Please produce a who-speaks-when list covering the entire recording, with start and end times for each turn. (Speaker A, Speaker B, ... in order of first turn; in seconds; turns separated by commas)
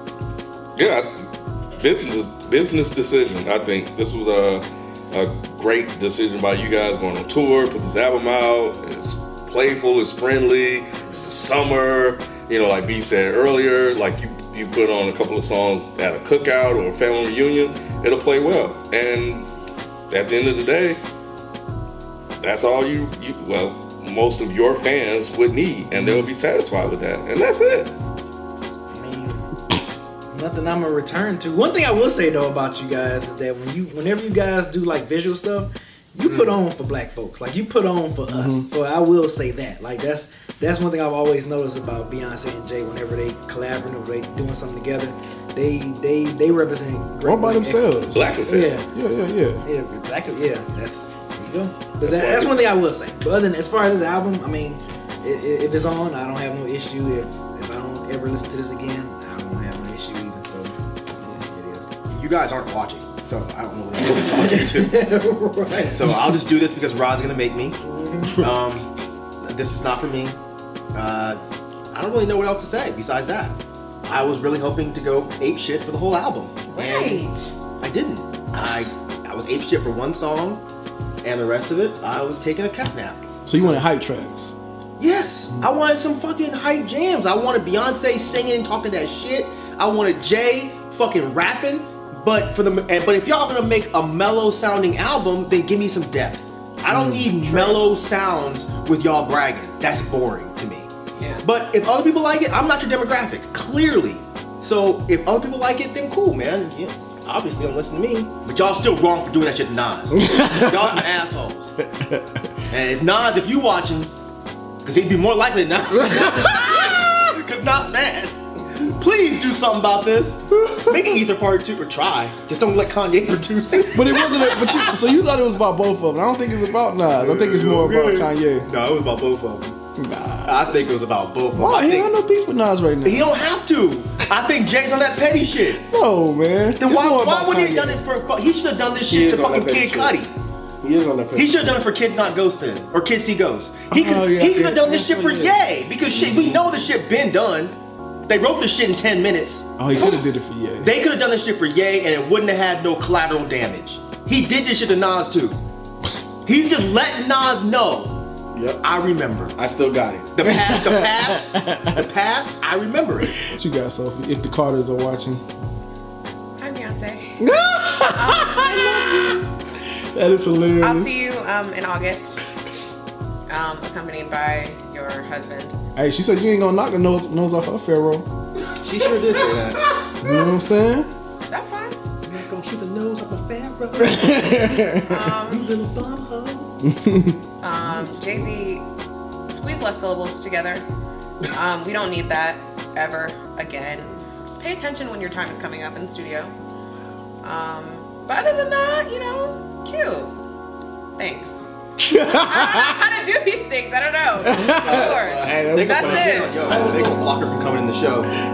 Speaker A: 0.8-1.1, Speaker A: 1.8-19.5, Speaker A: 20.1-21.0, Speaker A: 22.4-27.9, Speaker B: 28.9-29.5, Speaker B: 30.3-48.9, Speaker C: 36.3-36.6, Speaker D: 38.3-38.7, Speaker D: 47.2-48.3, Speaker A: 48.1-48.8, Speaker D: 48.9-49.6, Speaker B: 49.6-60.7, Speaker C: 52.1-52.5, Speaker B: 61.5-61.9, Speaker C: 62.1-65.1, Speaker B: 64.3-66.0, Speaker C: 65.7-67.8, Speaker B: 67.8-68.4, Speaker C: 68.3-68.9, Speaker C: 69.4-70.4, Speaker C: 70.9-71.4, Speaker C: 71.9-77.3, Speaker E: 76.7-77.5, Speaker C: 77.8-80.6, Speaker C: 81.2-83.9, Speaker D: 83.5-84.5, Speaker C: 85.0-100.9, Speaker D: 96.9-97.3, Speaker E: 101.2-101.4, Speaker C: 101.4-111.7, Speaker D: 110.1-111.0, Speaker D: 111.8-112.5, Speaker C: 112.7-114.1, Speaker C: 114.8-124.9, Speaker D: 116.0-117.2, Speaker D: 120.7-121.0, Speaker D: 123.9-128.7, Speaker C: 127.1-129.8, Speaker D: 130.0-130.7, Speaker C: 130.4-132.1, Speaker D: 131.5-133.3, Speaker C: 133.1-135.8, Speaker D: 135.8-138.1, Speaker C: 136.8-140.3, Speaker F: 139.1-140.2, Speaker F: 140.8-141.5, Speaker C: 141.3-147.8, Speaker D: 143.9-145.6, Speaker C: 148.3-150.0, Speaker D: 149.8-150.9, Speaker E: 149.9-150.3, Speaker C: 150.8-155.6, Speaker C: 156.4-158.2, Speaker F: 158.5-158.8, Speaker C: 158.8-159.6, Speaker F: 159.6-160.3, Speaker C: 160.3-163.5, Speaker D: 160.4-162.0, Speaker D: 163.4-165.4, Speaker E: 166.6-167.4, Speaker D: 167.4-169.4, Speaker E: 168.1-169.4, Speaker D: 170.1-171.1, Speaker E: 170.8-172.4, Speaker E: 173.5-175.8, Speaker D: 176.0-178.3, Speaker C: 178.7-180.0, Speaker D: 179.9-181.1, Speaker E: 181.5-182.0, Speaker C: 182.3-184.6, Speaker D: 184.0-185.3, Speaker E: 185.1-185.7, Speaker C: 185.5-186.8, Speaker D: 186.8-187.4, Speaker E: 187.6-188.9, Speaker E: 189.5-190.9, Speaker E: 191.5-196.5, Speaker E: 197.4-200.4, Speaker E: 201.2-201.5, Speaker D: 202.0-203.0, Speaker E: 202.4-206.6, Speaker D: 204.4-206.8, Speaker C: 204.8-208.3, Speaker B: 206.7-207.2